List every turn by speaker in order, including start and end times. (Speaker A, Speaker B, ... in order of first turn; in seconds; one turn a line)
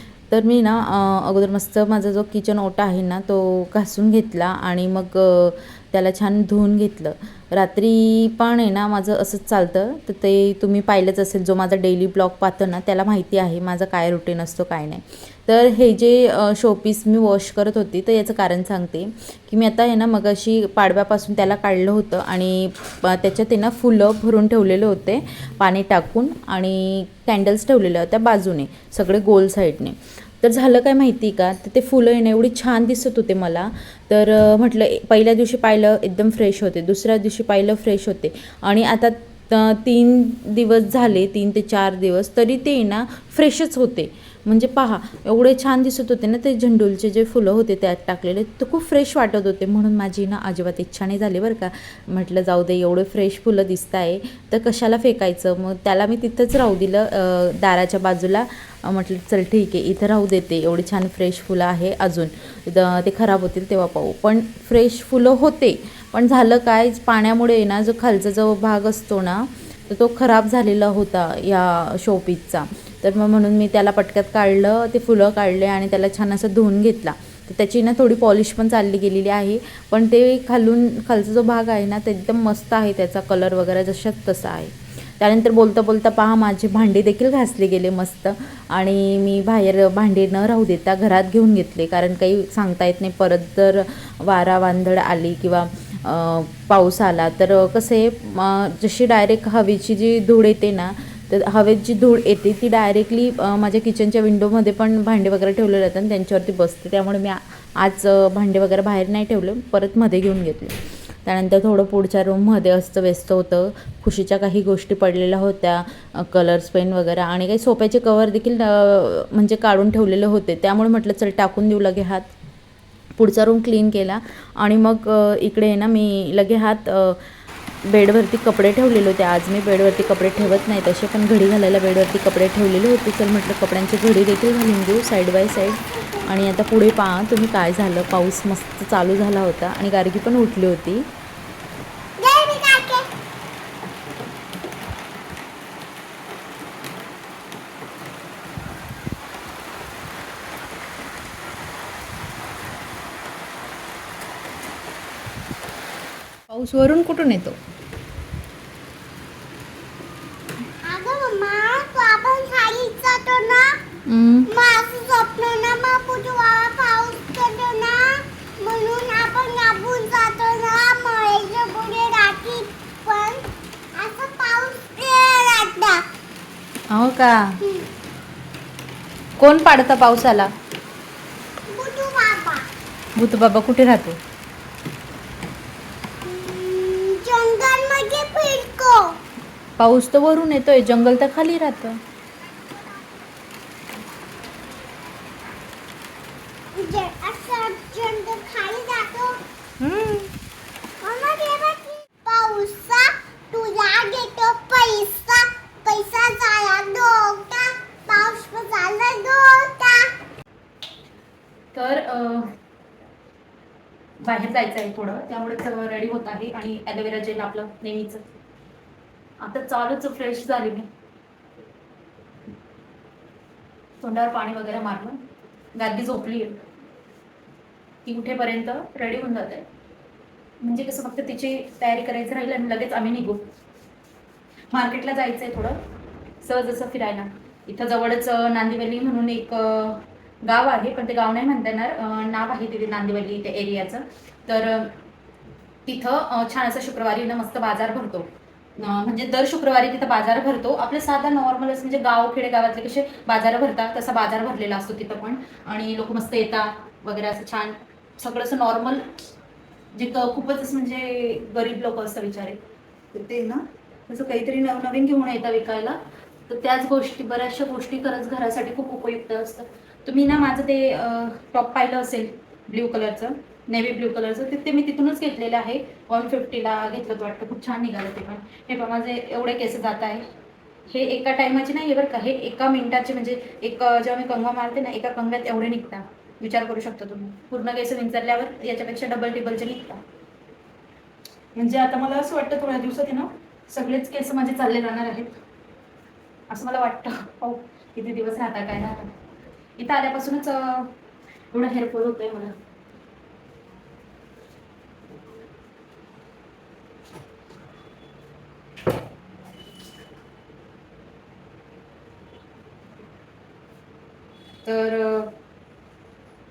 Speaker A: 0.3-122.3
Speaker A: 123.2-127.2
Speaker A: 127.8-141.1
Speaker B: 135.7-136.2
Speaker B: 142.2-143.1
Speaker A: 156.5-157.6
Speaker B: 160.8-163.8
Speaker A: 164.1-164.5
Speaker B: 164.5-176.0
Speaker A: 176.9-177.6
Speaker A: 179.4-180.5
Speaker B: 181.7-182.7
Speaker A: 183.2-184.2
Speaker B: 186.2-189.2
Speaker A: 189.8-192.0
Speaker B: 196.8-199.4
Speaker A: 199.8-200.3
Speaker B: 201.0-210.1
Speaker A: 211.7-212.5
Speaker A: 214.2-218.2
Speaker A: 219.4-220.9
Speaker A: 224.0-225.2
Speaker A: 225.8-226.6
Speaker A: 228.1-229.7
Speaker A: 230.6-233.5
Speaker A: 234.7-235.8
Speaker A: 236.4-245.0
Speaker A: 245.9-259.2
Speaker A: 259.9-262.6
Speaker A: 263.1-280.3
Speaker A: 280.9-290.0
Speaker A: 291.6-295.4
Speaker A: 296.5-299.1
Speaker A: 299.8-300.9
Speaker A: 301.5-302.6
Speaker A: 314.6-315.4